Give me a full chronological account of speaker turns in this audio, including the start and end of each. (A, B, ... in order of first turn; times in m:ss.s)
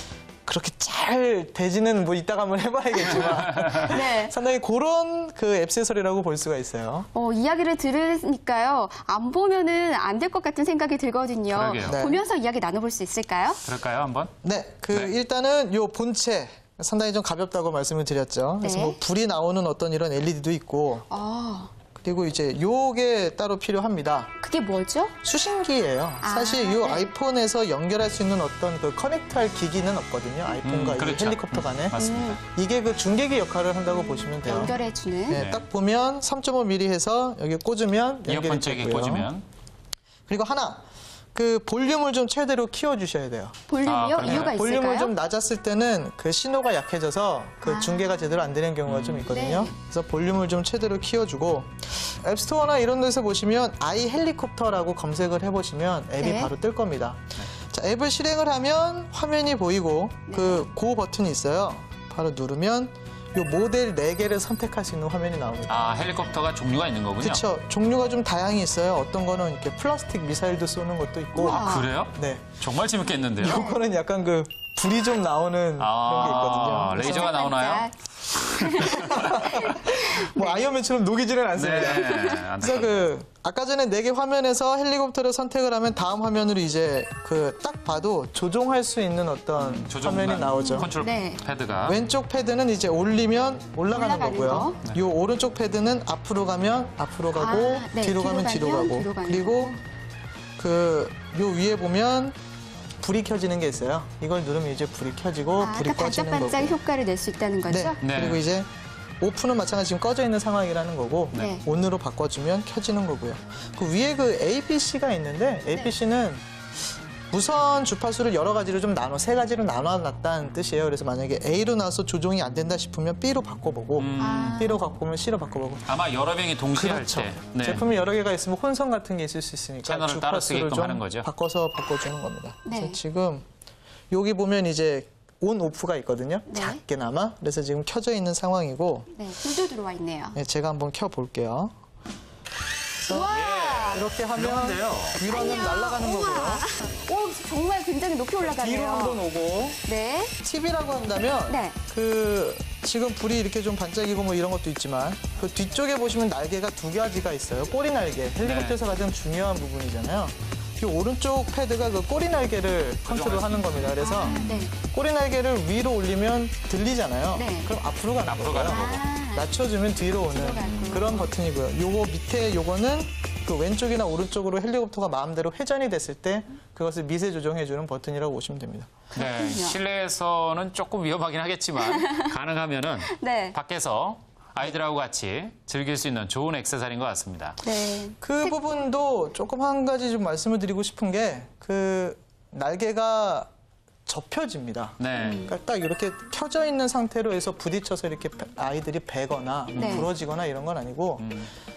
0:00.5-0:07.1 A
0:03.1-0:03.9 B
0:03.8-0:04.3 C
0:07.1-0:13.6 C
0:11.5-0:12.0 B
0:11.9-0:12.2 A
0:13.6-0:14.3 B
0:14.4-0:21.1 A
0:18.6-0:19.0 C
0:21.1-0:21.7 C
0:22.0-0:24.3 A
0:24.4-0:25.1 C
0:25.2-0:39.3 A
0:26.2-0:27.1 C
0:30.6-0:32.4 B
0:32.0-0:32.4 C
0:34.3-0:35.4 C
0:35.3-0:35.6 B
0:38.3-0:39.4 B
0:40.3-0:40.8 A
0:41.3-0:43.6 A
0:43.7-0:45.1 C
0:43.8-0:44.6 B
0:44.2-1:06.0 A
0:47.6-0:48.4 C
0:48.9-0:49.3 B
0:49.3-0:49.7 C
0:56.2-0:56.5 C
1:00.3-1:00.7 C
1:05.7-1:07.5 B
1:07.2-1:12.5 A
1:11.3-1:11.9 C
1:11.6-1:13.6 B
1:13.4-1:17.4 A
1:13.5-1:13.8 C
1:15.8-1:19.2 B
1:16.9-1:20.7 C
1:18.9-1:30.9 A
1:21.6-1:23.1 B
1:21.9-1:22.4 C
1:29.6-1:32.0 B
1:30.6-1:31.4 C
1:31.8-1:39.8 A
1:33.9-1:34.8 C
1:37.3-1:39.8 C
1:40.6-1:42.4 A
1:43.0-1:46.8 A
1:45.6-1:48.0 C
1:47.7-1:48.7 A
1:48.0-1:48.4 B
1:49.2-1:56.4 A
1:51.3-1:51.6 C
1:57.3-2:05.9 A
2:04.0-2:04.7 B
2:04.2-2:04.8 C
2:05.9-2:07.8 B
2:06.7-2:13.4 A
2:09.8-2:11.3 B
2:12.6-2:13.0 C
2:14.1-2:19.1 A
2:16.5-2:16.8 C
2:19.1-2:20.4 C
2:20.4-2:21.7 A
2:23.0-2:23.3 A
2:23.1-2:24.1 C
2:23.2-2:25.3 B
2:23.9-2:26.7 A
2:25.2-2:29.2 C
2:28.5-2:29.8 B
2:28.6-2:28.9 A
2:29.8-2:30.3 C
2:30.4-2:58.9 A
2:31.5-2:31.8 C
2:38.4-2:38.8 B
2:43.0-2:44.4 B
2:44.0-2:44.7 C
2:47.4-2:47.7 C
2:48.2-2:49.0 B
2:48.6-2:49.5 C
2:50.3-2:51.3 C
2:59.1-2:59.8 C
2:59.2-3:07.6 B
3:01.8-3:02.3 C
3:03.1-3:03.6 C
3:07.6-3:08.6 C
3:08.2-3:13.5 A
3:14.1-3:21.2 A
3:15.0-3:15.5 B
3:15.2-3:15.5 C
3:19.7-3:20.1 B
3:19.8-3:20.1 C
3:21.2-3:21.5 B